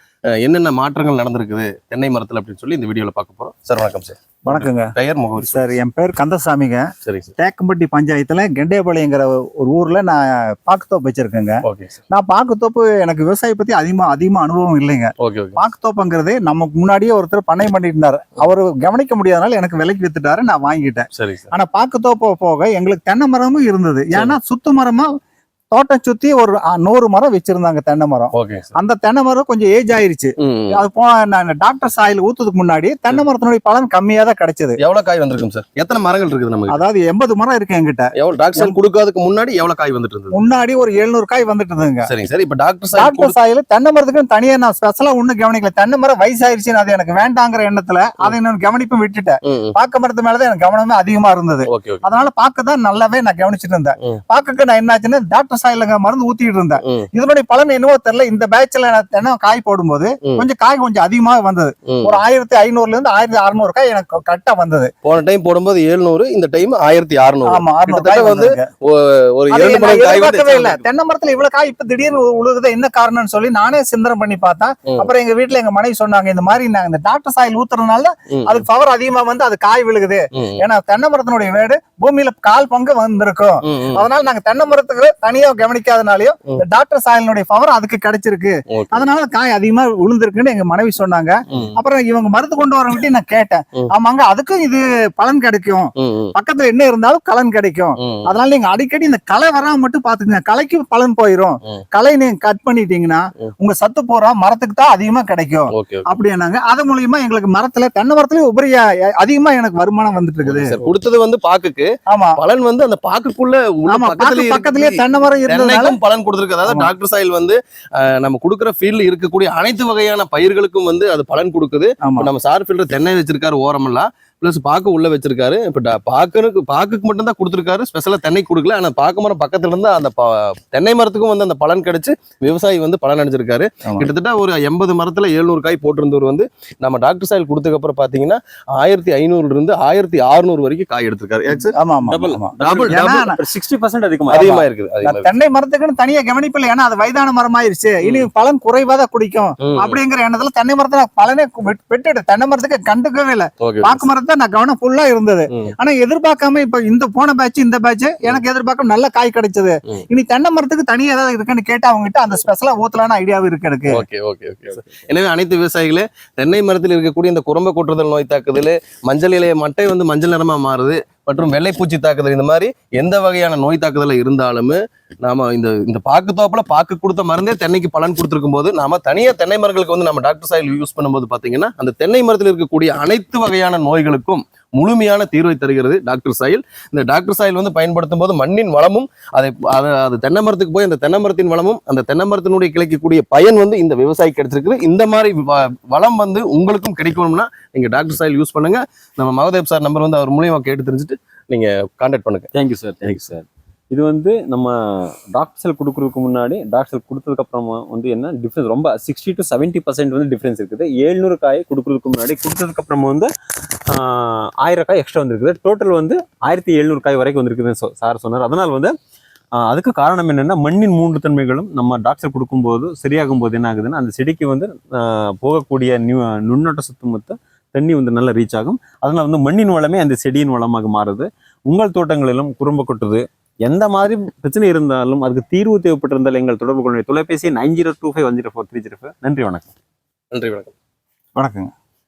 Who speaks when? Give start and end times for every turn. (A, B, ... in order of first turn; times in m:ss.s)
0:00.4-0:05.8 A
0:04.4-0:04.9 B
0:05.4-0:06.8 B
0:07.0-0:07.3 A
0:07.4-0:25.1 B
0:11.6-0:12.0 A
0:15.2-0:15.6 A
0:21.2-0:21.5 A
0:25.7-0:34.8 B
0:28.3-0:28.7 A
0:30.4-0:30.8 A
0:34.8-0:36.8 A
0:36.7-0:38.8 B
0:38.2-0:40.4 A
0:40.3-0:42.1 B
0:42.0-0:43.3 A
0:42.9-1:04.9 B
0:49.4-0:49.7 A
0:51.7-0:52.0 A
1:01.9-1:02.1 A
1:05.0-1:10.8 A
1:07.4-1:08.6 B
1:09.5-1:50.8 B
1:18.3-1:18.6 A
1:20.3-1:20.6 A
1:23.6-1:24.0 A
1:28.7-1:29.1 A
1:31.5-1:31.8 A
1:36.0-1:36.3 A
1:38.0-1:38.3 A
1:45.7-1:46.1 A
1:50.4-2:21.7 A
1:52.1-1:52.4 B
1:53.9-1:56.0 B
1:56.6-1:56.9 B
2:02.0-2:02.3 B
2:21.7-2:23.4 B
2:22.0-2:24.6 C
2:22.6-2:23.2 A
2:24.3-2:25.2 A
2:24.3-2:44.0 B
2:29.6-2:30.0 A
2:33.6-2:34.1 A
2:43.9-3:22.5 A
3:22.5-3:33.3 C
3:33.8-3:38.9 C
3:39.6-3:59.7 C
4:00.3-4:00.7 A
4:01.4-4:01.7 B